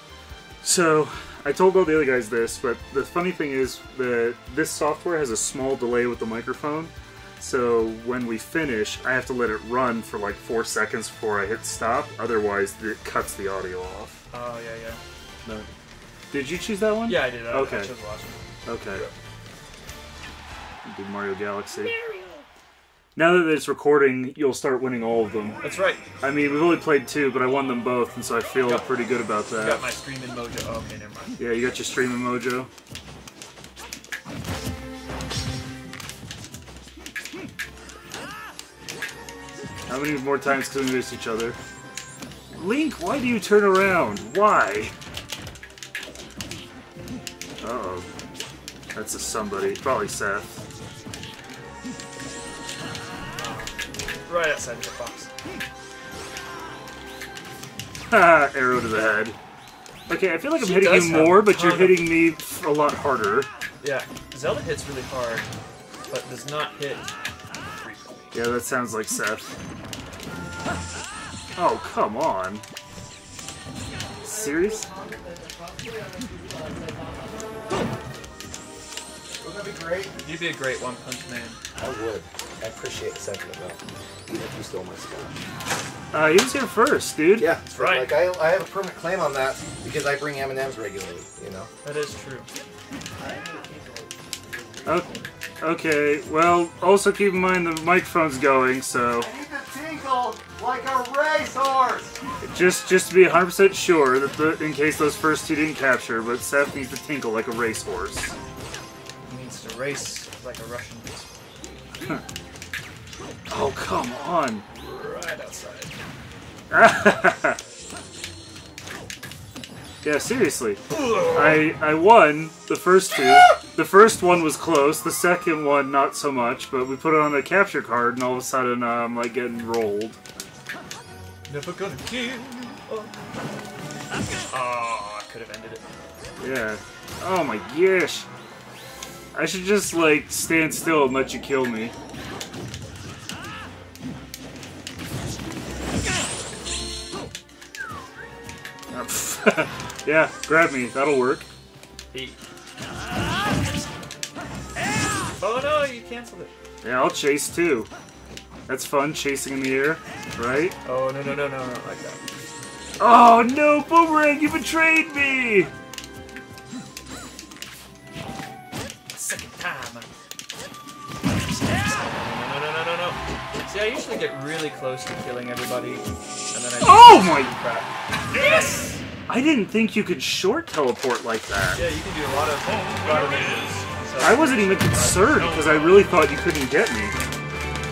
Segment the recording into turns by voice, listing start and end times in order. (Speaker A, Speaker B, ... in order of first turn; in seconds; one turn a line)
Speaker A: 0.6-14.2
Speaker B: 14.3-15.0
Speaker A: 16.3-17.9
Speaker B: 17.1-18.4
Speaker A: 18.6-19.1
Speaker A: 20.8-21.9
Speaker A: 23.1-25.6
Speaker B: 25.6-26.1
Speaker A: 26.2-29.9
Speaker B: 28.6-28.9
Speaker B: 29.5-31.4
Speaker A: 31.4-32.7
Speaker A: 39.9-41.6
Speaker A: 42.5-44.9
Speaker A: 47.6-48.1
Speaker A: 48.9-50.6
Speaker B: 53.4-55.3
Speaker A: 58.1-59.4
Speaker A: 60.1-63.5
Speaker B: 60.5-62.1
Speaker B: 63.8-65.5
Speaker B: 66.1-67.1
Speaker B: 67.7-68.4
Speaker A: 68.3-69.5
Speaker A: 71.5-72.6
Speaker A: 74.2-74.9
Speaker C: 74.8-77.2
Speaker C: 79.4-80.2
Speaker B: 80.2-81.6
Speaker C: 81.8-85.3
Speaker A: 86.1-87.5
Speaker C: 87.4-91.7
Speaker B: 87.7-88.3
Speaker B: 91.8-92.5
Speaker C: 93.2-95.2
Speaker A: 94.8-99.3
Speaker C: 99.2-102.2
Speaker A: 102.4-108.4
Speaker B: 109.2-111.3
Speaker A: 113.5-114.6
Speaker B: 114.7-115.9
Speaker A: 116.7-117.6
Speaker A: 120.0-130.2
Speaker B: 120.9-121.8
Speaker B: 131.5-133.1
Speaker B: 134.5-135.8
Speaker A: 136.4-138.3
Speaker A: 139.3-141.9
Speaker A: 148.9-151.5
Speaker B: 152.1-152.4
Speaker B: 155.4-156.5
Speaker A: 156.8-157.9
Speaker A: 158.7-160.8
Speaker B: 160.8-162.2
Speaker A: 163.0-165.7
Speaker B: 169.1-170.1
Speaker B: 171.7-179.0
Speaker A: 176.8-177.6
Speaker A: 179.3-181.9
Speaker B: 181.7-186.1
Speaker A: 184.2-187.2